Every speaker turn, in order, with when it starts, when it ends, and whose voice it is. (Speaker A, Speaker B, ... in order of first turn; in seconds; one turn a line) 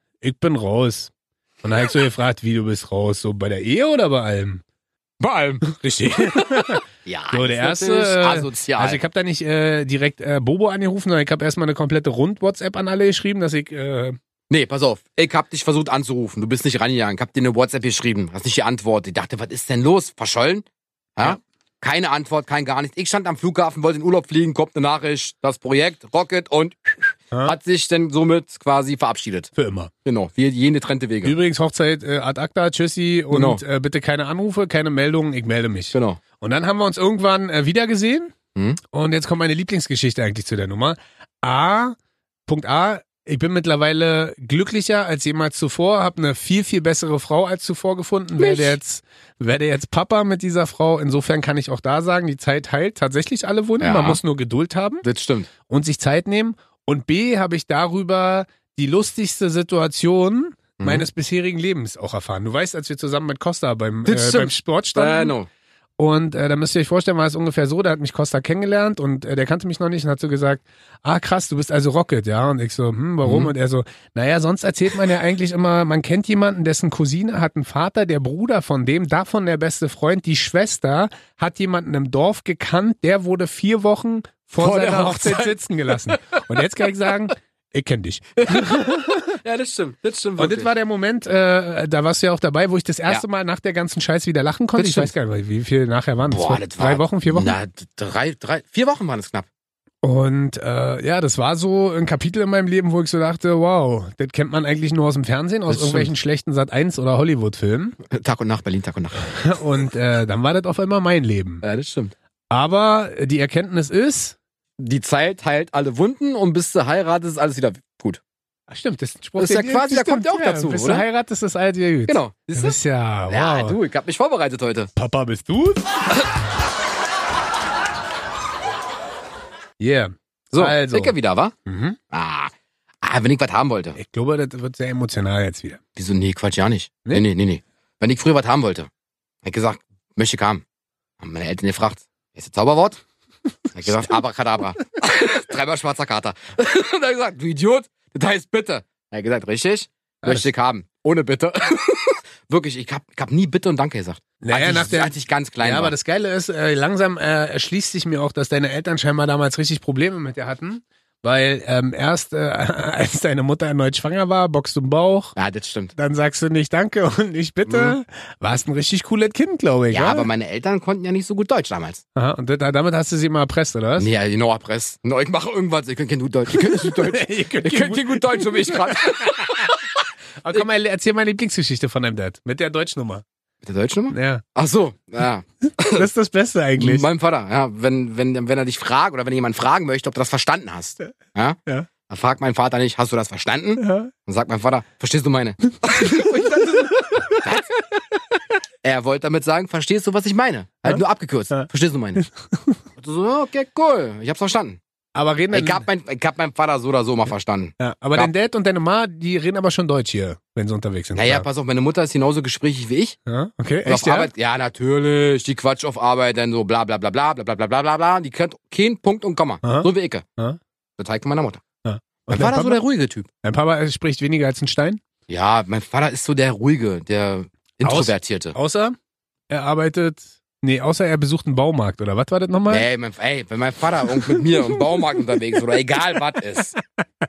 Speaker A: 0.2-1.1
Speaker A: 1.6-4.6
Speaker B: 5.2-5.6
Speaker A: 5.6-14.2
Speaker B: 6.3-9.0
Speaker B: 14.5-29.5
Speaker A: 29.6-29.9
Speaker B: 30.1-31.4
Speaker A: 31.2-38.3
Speaker B: 33.3-33.6
Speaker B: 35.9-36.2
Speaker A: 38.9-55.0
Speaker B: 48.4-48.8
Speaker B: 53.8-54.2
Speaker B: 55.0-55.5
Speaker A: 55.7-65.3
Speaker B: 60.8-61.1
Speaker B: 64.1-65.5
Speaker A: 66.0-89.2
Speaker B: 73.2-73.5
Speaker B: 84.6-86.2
Speaker B: 88.4-90.7
Speaker A: 90.4-97.6
Speaker B: 94.8-95.1
Speaker B: 96.3-99.5
Speaker A: 100.0-108.0
Speaker B: 105.7-106.1
Speaker B: 108.1-109.4
Speaker A: 109.3-111.6
Speaker B: 111.6-112.1
Speaker A: 112.5-114.4
Speaker B: 114.8-118.2
Speaker A: 118.7-123.8
Speaker B: 119.4-121.0
Speaker B: 122.1-122.8
Speaker B: 123.3-124.9
Speaker A: 125.0-125.8
Speaker A: 129.8-131.1
Speaker B: 130.5-131.5
Speaker A: 131.7-132.0
Speaker B: 132.1-134.0
Speaker A: 134.0-135.8
Speaker B: 136.0-138.9
Speaker B: 139.4-140.6
Speaker B: 141.2-143.0
Speaker B: 143.7-155.9
Speaker A: 154.4-165.4
Speaker B: 165.4-165.9
Speaker A: 165.9-170.3
Speaker B: 167.7-167.9
Speaker B: 169.9-172.0
Speaker A: 172.2-174.1
Speaker B: 174.0-179.9
Speaker A: 176.5-179.3
Speaker A: 180.4-183.2
Speaker B: 183.6-186.1
Speaker A: 184.1-184.4
Speaker A: 185.8-187.1
Speaker B: 186.8-197.7
Speaker A: 193.8-194.1
Speaker A: 195.9-197.4
Speaker B: 198.8-202.2
Speaker A: 200.8-201.7
Speaker A: 202.2-202.8
Speaker B: 203.0-204.8
Speaker A: 205.1-205.8
Speaker B: 205.5-208.3
Speaker A: 207.8-211.4
Speaker B: 211.2-213.2
Speaker A: 213.3-214.3
Speaker B: 213.9-220.2
Speaker A: 219.6-220.6
Speaker B: 221.0-221.6
Speaker A: 221.8-222.8
Speaker B: 222.3-223.3
Speaker A: 223.4-225.0
Speaker B: 225.3-228.6
Speaker A: 227.8-229.0
Speaker A: 229.5-232.9
Speaker B: 232.7-236.8